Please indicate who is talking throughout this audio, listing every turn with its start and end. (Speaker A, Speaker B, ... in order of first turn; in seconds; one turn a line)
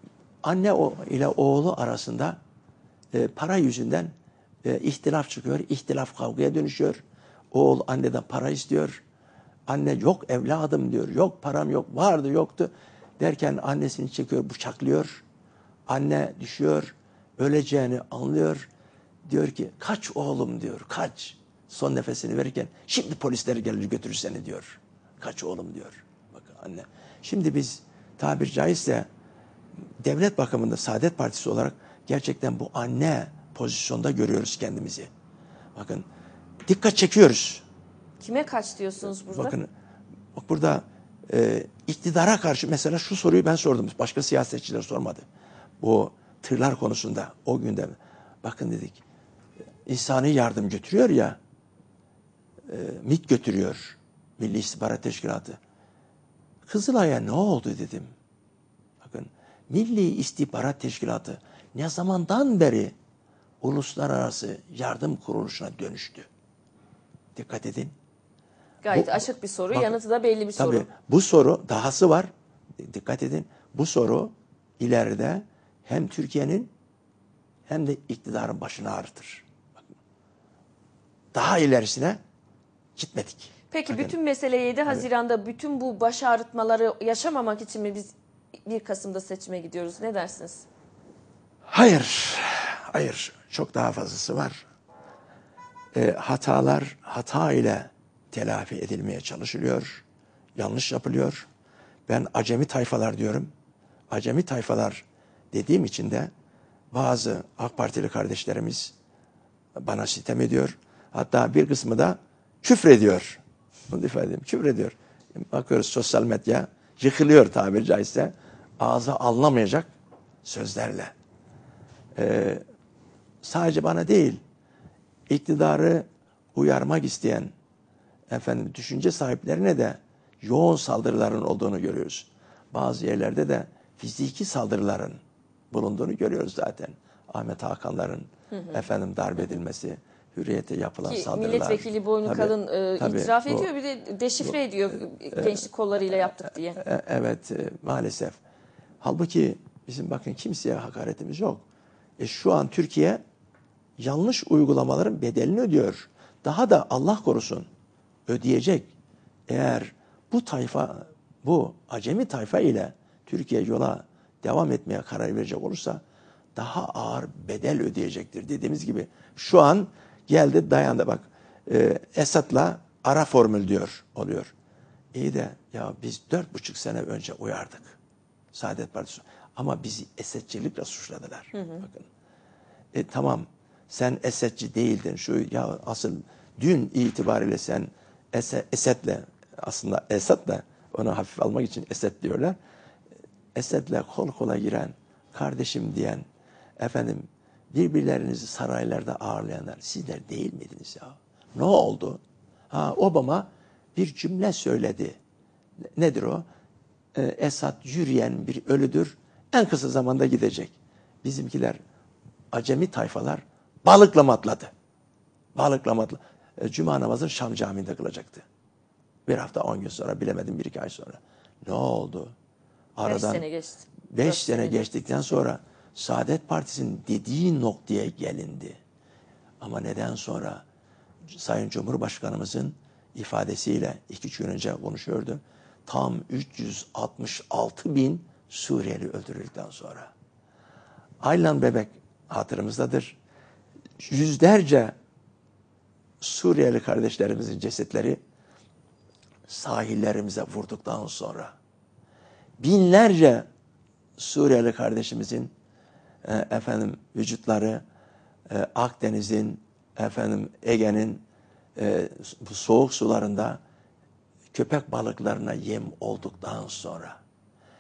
Speaker A: 0.4-2.4
Speaker A: 3.1-4.1
Speaker A: 4.6-7.0
Speaker A: 7.5-9.0
Speaker A: 9.7-15.2
Speaker A: 15.9-18.7
Speaker A: 19.2-29.1
Speaker A: 30.0-35.1
Speaker A: 35.8-36.1
Speaker A: 36.7-37.6
Speaker B: 38.2-39.6
Speaker A: 39.3-39.7
Speaker A: 40.4-45.3
Speaker A: 45.8-49.0
Speaker A: 49.9-51.4
Speaker A: 52.7-55.6
Speaker A: 56.6-58.1
Speaker A: 59.0-63.0
Speaker A: 63.6-66.3
Speaker A: 67.3-68.0
Speaker B: 68.8-70.9
Speaker A: 68.9-70.0
Speaker A: 70.6-76.7
Speaker A: 77.7-79.9
Speaker A: 81.3-82.2
Speaker A: 83.0-84.2
Speaker B: 83.7-88.1
Speaker B: 88.7-90.7
Speaker A: 91.7-94.7
Speaker A: 96.0-100.0
Speaker A: 100.6-101.5
Speaker A: 102.1-103.5
Speaker A: 104.1-106.3
Speaker A: 106.9-109.0
Speaker A: 109.8-119.9
Speaker A: 120.4-121.1
Speaker A: 122.2-122.6
Speaker A: 123.4-124.4
Speaker A: 125.3-127.5
Speaker A: 128.3-135.2
Speaker A: 135.7-143.7
Speaker B: 138.5-138.8
Speaker B: 141.0-146.8
Speaker A: 145.3-148.4
Speaker A: 149.0-151.6
Speaker A: 152.2-153.2
Speaker A: 154.0-157.7
Speaker A: 158.3-158.9
Speaker A: 159.5-166.0
Speaker A: 166.6-174.5
Speaker A: 175.1-178.0
Speaker A: 178.5-182.1
Speaker B: 181.6-181.8
Speaker A: 182.9-192.6
Speaker A: 193.6-196.2
Speaker A: 196.8-205.2
Speaker A: 205.8-206.4
Speaker A: 207.2-211.8
Speaker A: 212.5-214.7
Speaker A: 215.6-218.5
Speaker A: 219.3-222.3
Speaker A: 223.0-223.4
Speaker B: 223.1-224.9
Speaker A: 224.1-228.8
Speaker A: 229.6-230.6
Speaker A: 231.3-240.1
Speaker A: 241.2-243.2
Speaker A: 244.0-244.9
Speaker A: 246.2-248.2
Speaker A: 249.5-251.6
Speaker A: 252.6-253.5
Speaker A: 254.2-255.5
Speaker A: 256.2-257.8
Speaker A: 258.5-261.2
Speaker A: 261.8-263.6
Speaker A: 264.5-267.2